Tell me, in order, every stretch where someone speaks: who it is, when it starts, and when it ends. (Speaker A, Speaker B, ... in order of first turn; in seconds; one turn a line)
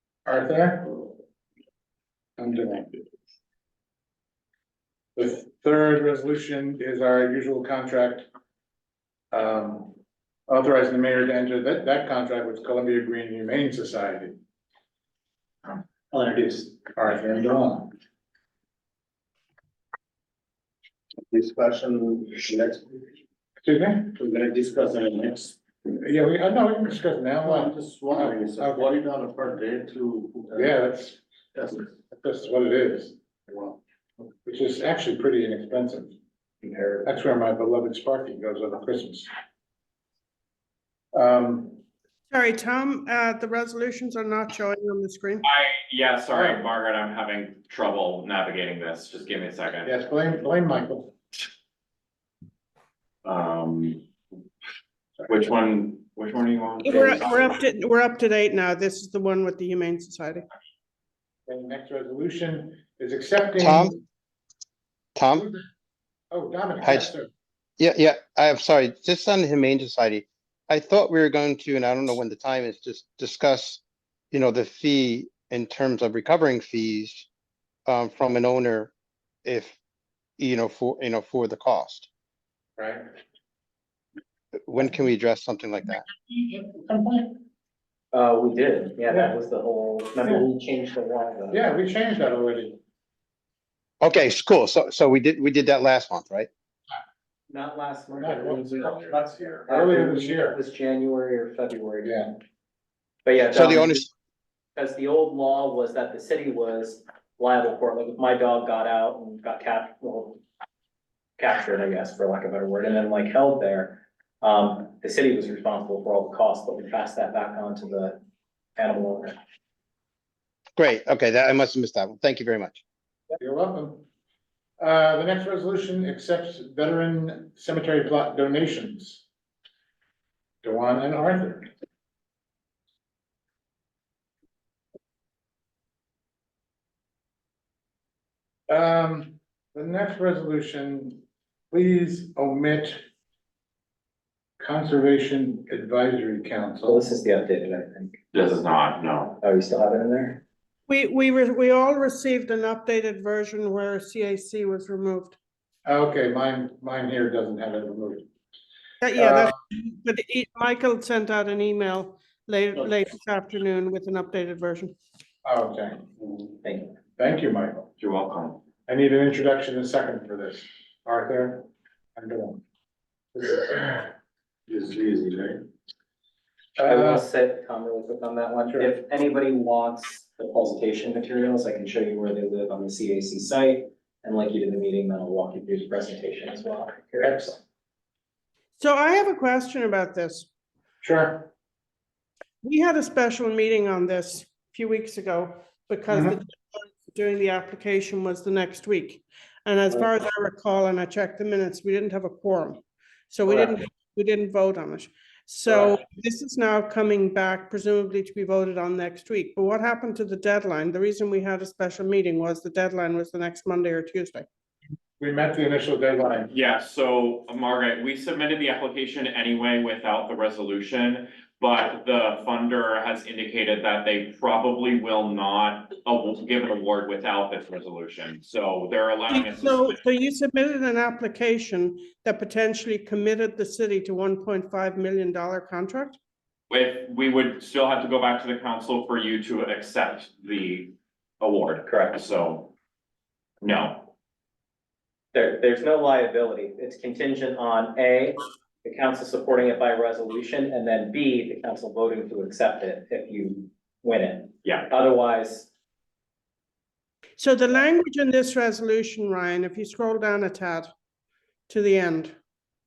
Speaker A: 0.3-0.9
Speaker A: 2.4-3.0
Speaker A: 5.2-8.3
Speaker A: 9.3-10.0
Speaker A: 10.5-14.4
Speaker B: 16.1-16.7
Speaker A: 16.9-17.9
Speaker B: 21.3-23.0
Speaker A: 23.6-24.1
Speaker B: 24.2-25.6
Speaker A: 25.9-28.9
Speaker B: 27.4-30.8
Speaker A: 30.6-31.2
Speaker B: 31.6-31.9
Speaker A: 32.0-33.2
Speaker A: 34.5-36.2
Speaker B: 36.6-37.0
Speaker A: 37.0-39.3
Speaker A: 41.1-41.8
Speaker C: 42.3-45.5
Speaker D: 45.4-49.9
Speaker A: 46.3-46.6
Speaker A: 49.9-51.1
Speaker D: 53.2-54.1
Speaker D: 55.3-57.4
Speaker C: 56.8-60.5
Speaker A: 61.5-64.0
Speaker E: 63.6-64.0
Speaker E: 65.2-65.5
Speaker A: 65.3-65.6
Speaker A: 66.3-67.3
Speaker E: 66.8-67.1
Speaker E: 67.8-77.3
Speaker E: 77.9-78.9
Speaker E: 79.5-79.8
Speaker E: 80.4-82.1
Speaker A: 82.8-83.1
Speaker E: 84.7-86.0
Speaker A: 86.2-87.4
Speaker F: 88.1-91.6
Speaker A: 89.1-89.4
Speaker A: 91.5-92.8
Speaker E: 94.0-96.5
Speaker F: 97.5-102.2
Speaker A: 98.2-100.6
Speaker F: 103.3-104.1
Speaker E: 103.5-104.1
Speaker F: 104.8-110.4
Speaker F: 111.4-118.2
Speaker F: 118.8-119.3
Speaker E: 120.8-122.8
Speaker A: 123.4-124.0
Speaker A: 124.8-129.2
Speaker A: 130.6-131.7
Speaker A: 138.7-143.0
Speaker A: 144.6-147.1
Speaker F: 146.8-148.2
Speaker D: 148.3-149.3
Speaker F: 149.4-150.4
Speaker C: 150.9-155.3
Speaker A: 155.9-158.3
Speaker C: 159.0-165.0
Speaker A: 159.2-159.5
Speaker A: 165.4-166.0
Speaker F: 166.6-166.9
Speaker A: 167.2-167.9
Speaker D: 168.0-168.6
Speaker A: 168.9-172.6
Speaker A: 173.4-174.0
Speaker B: 174.7-175.6
Speaker A: 176.8-177.2
Speaker F: 176.8-187.6
Speaker A: 187.2-187.5
Speaker C: 188.8-190.5
Speaker A: 191.0-191.5
Speaker C: 192.6-214.5
Speaker A: 196.1-196.4
Speaker A: 215.2-216.5
Speaker D: 216.5-230.0
Speaker C: 229.3-236.2
Speaker D: 236.7-242.7
Speaker F: 241.9-242.2
Speaker D: 243.6-244.1
Speaker F: 245.3-255.7
Speaker C: 257.4-260.9
Speaker C: 261.7-262.4